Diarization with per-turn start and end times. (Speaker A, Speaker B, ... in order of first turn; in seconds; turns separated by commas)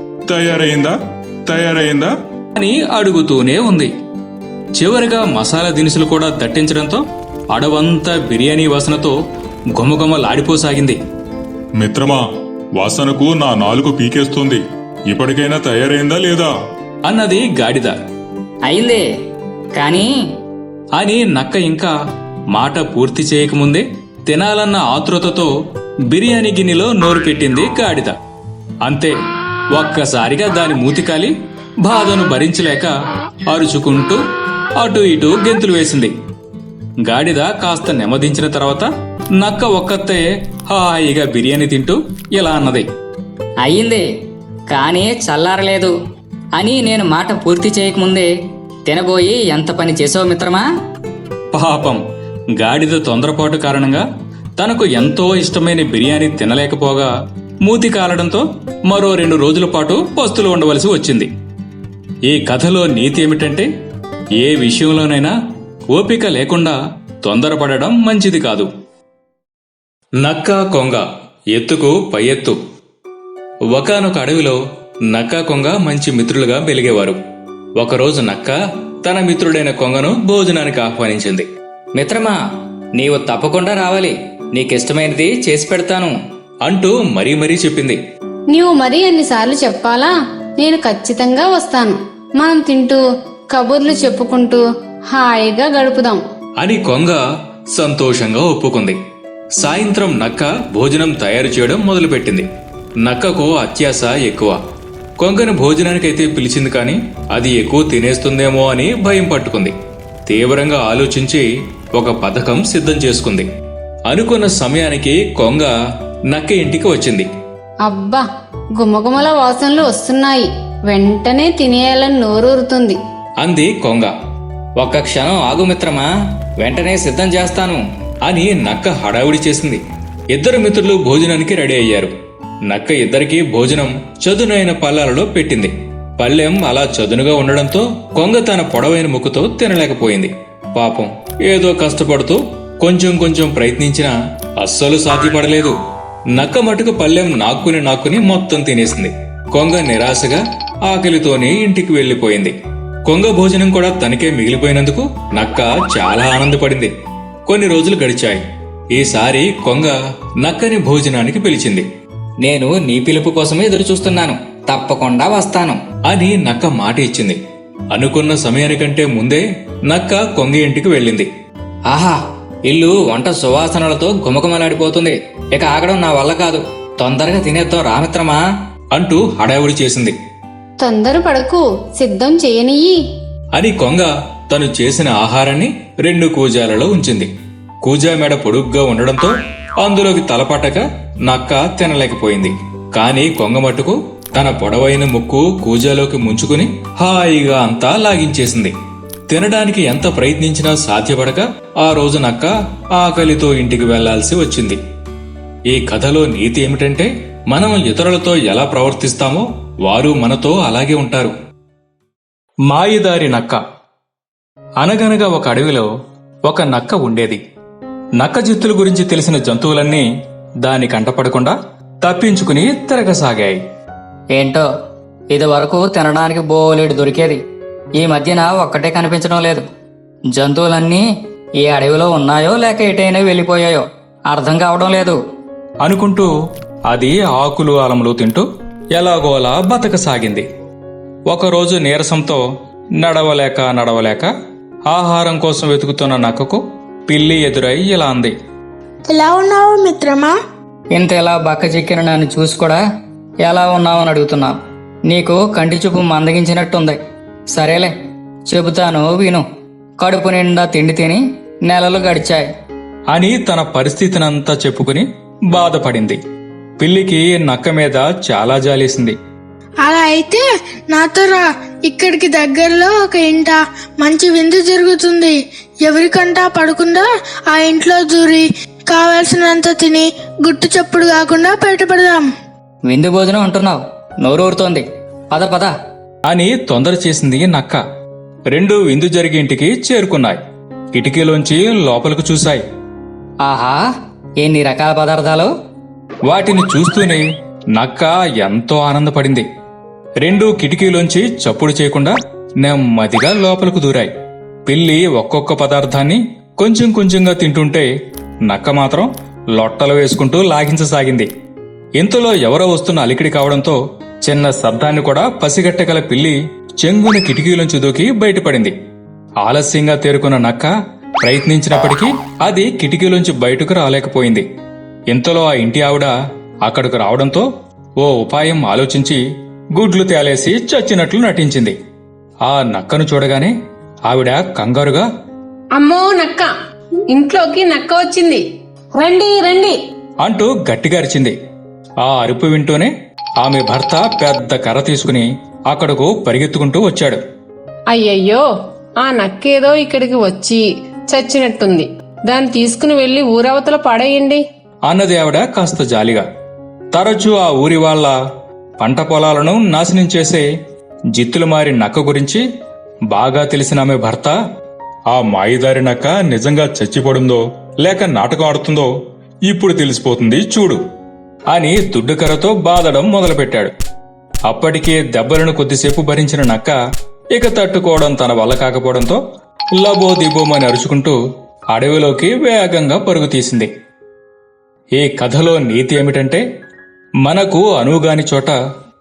Speaker A: 0.3-0.9, Speaker B: 0.3-0.9, Speaker B: 1.5-2.1, Speaker A: 1.8-3.9, Speaker A: 4.8-9.2, Speaker A: 9.8-11.0, Speaker B: 11.8-12.2, Speaker B: 12.8-16.5, Speaker A: 17.1-17.9, Speaker C: 18.7-19.1, Speaker C: 19.8-20.1, Speaker A: 20.9-21.9, Speaker A: 22.5-25.5, Speaker A: 26.1-28.1, Speaker A: 28.8-29.2, Speaker A: 29.7-32.9, Speaker A: 33.5-34.2, Speaker A: 34.8-36.1, Speaker A: 37.0-42.9, Speaker C: 43.6-44.1, Speaker C: 44.7-45.9, Speaker C: 46.5-48.3, Speaker C: 48.9-50.7, Speaker A: 51.5-52.0, Speaker A: 52.6-54.0, Speaker A: 54.6-57.1, Speaker A: 57.6-61.3, Speaker A: 62.3-63.7, Speaker A: 64.4-65.3, Speaker A: 65.9-68.7, Speaker A: 70.2-72.6, Speaker A: 73.7-74.6, Speaker A: 75.1-77.2, Speaker A: 77.8-81.5, Speaker C: 82.0-82.4, Speaker C: 83.0-85.8, Speaker A: 85.8-86.1, Speaker A: 86.6-88.0, Speaker D: 88.5-96.2, Speaker A: 96.6-97.2, Speaker A: 97.7-99.0, Speaker A: 99.6-102.5, Speaker A: 103.0-104.6, Speaker A: 105.2-109.7, Speaker A: 110.2-113.5, Speaker A: 114.1-115.7, Speaker A: 116.3-117.3, Speaker D: 117.8-123.0, Speaker A: 123.4-124.1, Speaker A: 124.8-126.1, Speaker A: 126.6-129.8, Speaker A: 130.3-132.1, Speaker A: 132.7-145.8, Speaker A: 146.3-152.5, Speaker A: 153.1-156.9, Speaker A: 157.4-161.8, Speaker C: 162.4-165.8, Speaker A: 166.1-167.4, Speaker A: 167.9-171.3, Speaker C: 171.9-178.4, Speaker A: 178.9-180.1, Speaker D: 180.8-183.0, Speaker A: 183.6-187.3, Speaker A: 187.8-198.7, Speaker A: 199.3-204.8, Speaker A: 205.7-211.3, Speaker A: 212.7-213.6, Speaker A: 214.8-215.9, Speaker A: 216.4-217.4, Speaker A: 218.2-220.1, Speaker A: 220.6-223.6, Speaker C: 224.3-224.7, Speaker C: 225.3-227.4, Speaker C: 228.0-229.6, Speaker C: 230.3-231.1, Speaker C: 231.6-235.2, Speaker A: 235.8-236.3, Speaker A: 236.9-240.4, Speaker A: 241.3-242.4, Speaker A: 243.0-244.3, Speaker A: 244.9-248.3, Speaker E: 249.1-250.3, Speaker C: 250.9-252.8, Speaker C: 253.4-254.6, Speaker C: 255.1-257.0, Speaker C: 257.5-257.9, Speaker C: 258.5-259.4, Speaker C: 260.0-262.5, Speaker A: 263.1-266.2, Speaker A: 266.8-269.2, Speaker E: 269.9-270.4, Speaker E: 270.9-271.4, Speaker E: 271.9-275.3, Speaker E: 275.9-277.0, Speaker E: 277.5-282.2, Speaker C: 282.9-285.7, Speaker A: 286.3-287.8, Speaker A: 288.5-290.4, Speaker A: 290.9-292.6, Speaker C: 293.4-293.8, Speaker C: 294.4-295.5, Speaker A: 296.3-299.4, Speaker A: 300.2-304.1, Speaker A: 304.7-307.9, Speaker A: 308.5-311.3, Speaker A: 312.0-318.7, Speaker A: 319.4-320.7, Speaker A: 321.2-324.4, Speaker A: 325.1-326.1, Speaker A: 326.6-327.5, Speaker A: 328.0-329.2, Speaker A: 329.8-331.8, Speaker A: 332.4-333.5, Speaker A: 334.1-335.1, Speaker D: 335.8-336.5, Speaker D: 337.1-338.4, Speaker D: 338.9-339.8, Speaker A: 340.2-341.3, Speaker A: 342.0-347.2, Speaker D: 347.9-348.4, Speaker D: 349.0-354.4, Speaker A: 354.9-356.2, Speaker A: 356.9-358.1, Speaker A: 358.8-360.4, Speaker A: 361.1-362.4, Speaker A: 363.1-364.3, Speaker A: 365.1-368.9, Speaker A: 369.5-370.8, Speaker A: 371.5-373.7, Speaker A: 374.5-376.8, Speaker A: 377.3-379.2, Speaker A: 379.8-381.2, Speaker A: 381.7-383.7, Speaker A: 385.0-386.4, Speaker A: 387.2-388.6